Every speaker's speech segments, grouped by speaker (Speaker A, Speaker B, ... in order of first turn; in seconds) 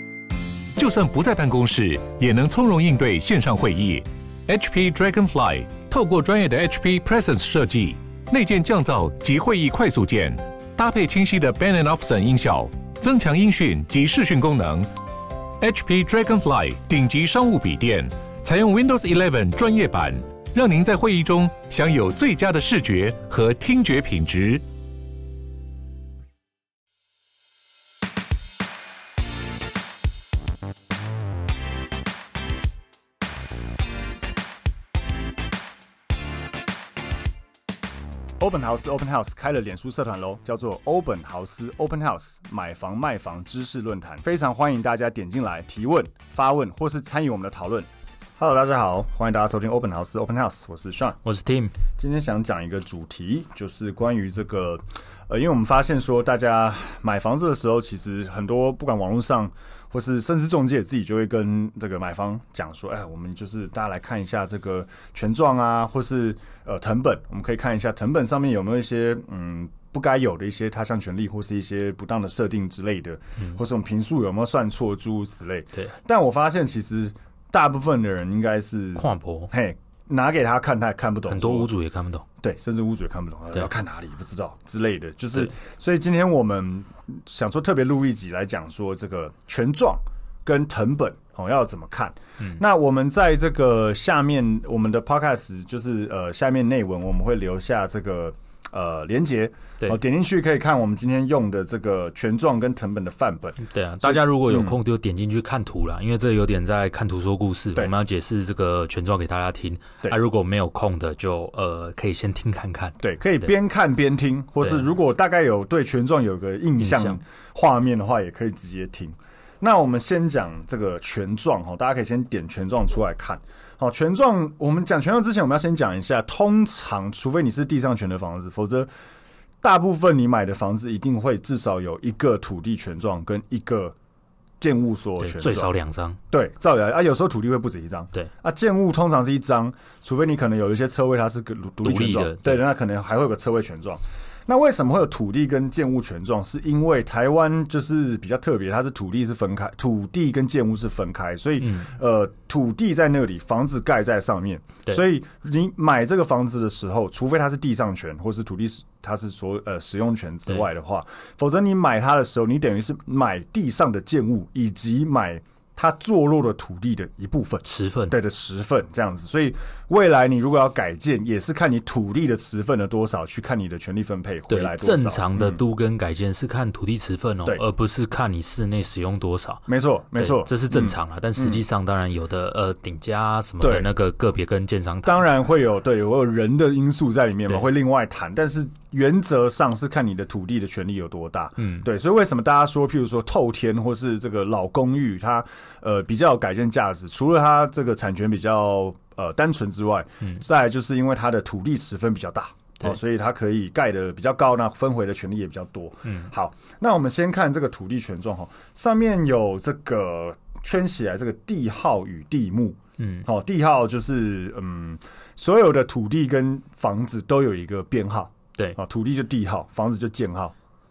Speaker A: 0.8-14.9, 15.6-24.6
Speaker B: 38.4-51.2, 52.0-81.7, 82.4-104.8, 113.0-128.9, 129.6-133.9, 134.6-135.7, 136.3-175.6, 179.7-181.6, 183.6-183.9, 185.0-220.5
Speaker C: 51.2-51.7, 79.0-79.5, 81.3-82.2, 103.6-113.5, 116.8-117.2, 135.2-136.2, 141.8-142.6, 151.6-151.9, 167.6-168.2, 174.5-185.2, 191.6-191.8, 213.0-213.2